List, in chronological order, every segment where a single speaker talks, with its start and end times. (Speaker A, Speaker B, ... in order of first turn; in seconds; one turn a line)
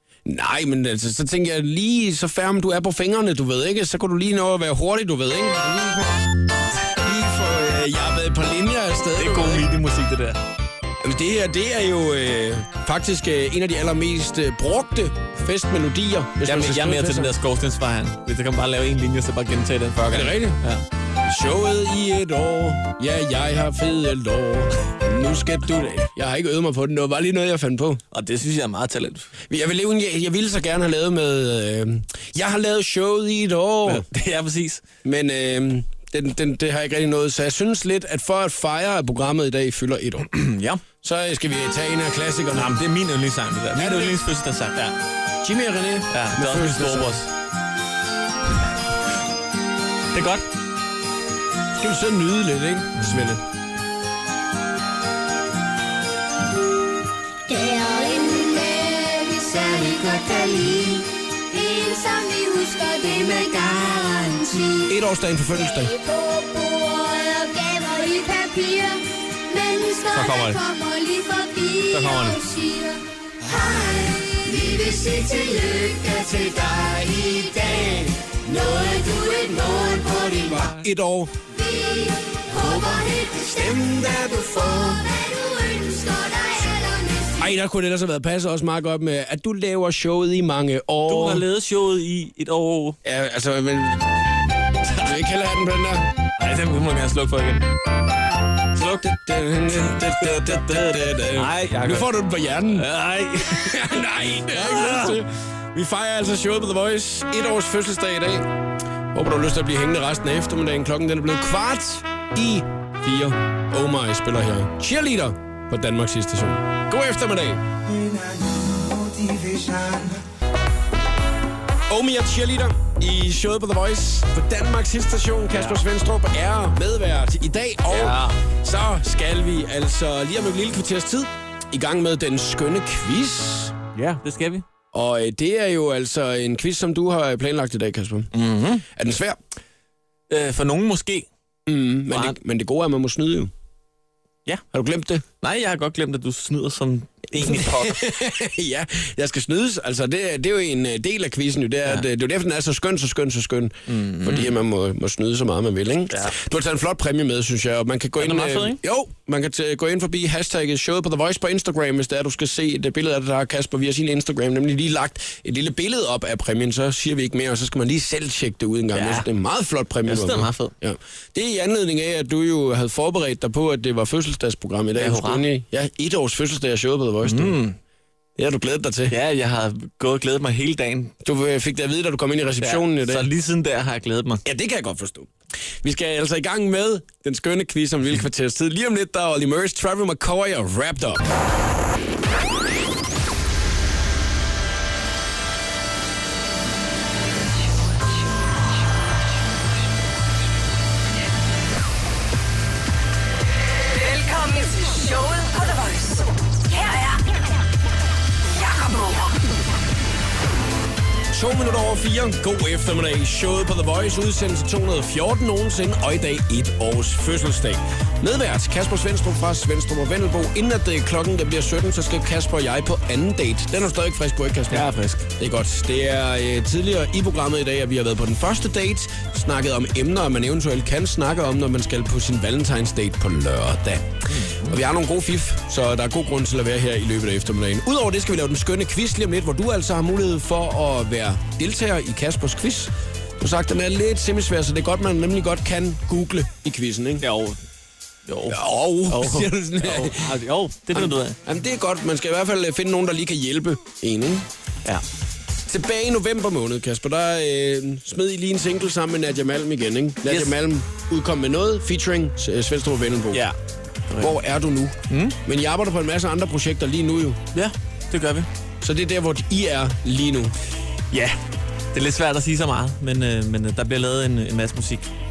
Speaker A: 0.2-6.2
Speaker A: 6.9-9.7
Speaker B: 9.2-10.4
Speaker A: 11.0-17.3
Speaker B: 16.4-20.8
Speaker A: 20.1-20.6
Speaker A: 21.2-28.0
Speaker B: 28.1-29.3
Speaker A: 29.5-34.0
Speaker B: 33.8-34.8
Speaker A: 35.0-40.3
Speaker B: 40.3-40.8
Speaker A: 41.0-42.8
Speaker B: 42.5-44.9
Speaker A: 43.7-44.2
Speaker A: 45.4-47.2
Speaker B: 46.1-47.3
Speaker B: 50.1-50.5
Speaker A: 51.8-53.4
Speaker B: 53.0-53.3
Speaker C: 57.5-65.0
Speaker A: 64.9-65.9
Speaker C: 65.5-80.7
Speaker B: 70.1-70.6
Speaker B: 71.9-72.4
Speaker A: 77.6-78.1
Speaker A: 80.6-81.4
Speaker C: 81.5-87.5
Speaker A: 83.5-85.0
Speaker A: 87.4-91.4
Speaker B: 91.1-93.0
Speaker A: 93.0-94.3
Speaker A: 94.8-96.1
Speaker B: 96.4-97.7
Speaker A: 98.7-102.9
Speaker B: 99.9-102.1
Speaker B: 102.7-105.2
Speaker A: 103.5-108.5
Speaker A: 109.1-117.6
Speaker A: 121.9-133.7
Speaker B: 127.9-128.4
Speaker B: 133.9-134.6
Speaker A: 134.9-138.3
Speaker B: 138.3-138.8
Speaker A: 138.9-139.4
Speaker B: 140.3-141.3
Speaker A: 141.7-143.5
Speaker B: 142.1-142.4
Speaker A: 144.7-145.2
Speaker B: 145.4-148.0
Speaker A: 147.4-177.6
Speaker B: 153.9-154.5
Speaker B: 156.1-156.3
Speaker B: 158.2-158.8
Speaker B: 168.9-169.3
Speaker B: 170.0-170.7
Speaker B: 175.0-175.4
Speaker B: 177.2-177.8
Speaker A: 178.4-179.2
Speaker B: 179.1-181.1
Speaker A: 181.2-183.3
Speaker B: 182.6-184.4
Speaker A: 184.4-185.3
Speaker A: 185.8-191.3
Speaker D: 203.9-207.2
Speaker D: 208.5-209.4
Speaker A: 211.3-247.2
Speaker B: 224.7-225.3
Speaker B: 234.3-234.8
Speaker B: 247.2-247.6
Speaker B: 248.2-251.4
Speaker A: 248.5-250.4
Speaker A: 250.9-254.5
Speaker A: 255.7-263.5
Speaker B: 260.2-260.6
Speaker B: 264.1-264.4
Speaker A: 264.2-267.4
Speaker B: 265.1-265.4
Speaker B: 267.5-268.5
Speaker A: 268.8-270.5
Speaker B: 271.1-271.4
Speaker B: 271.9-275.1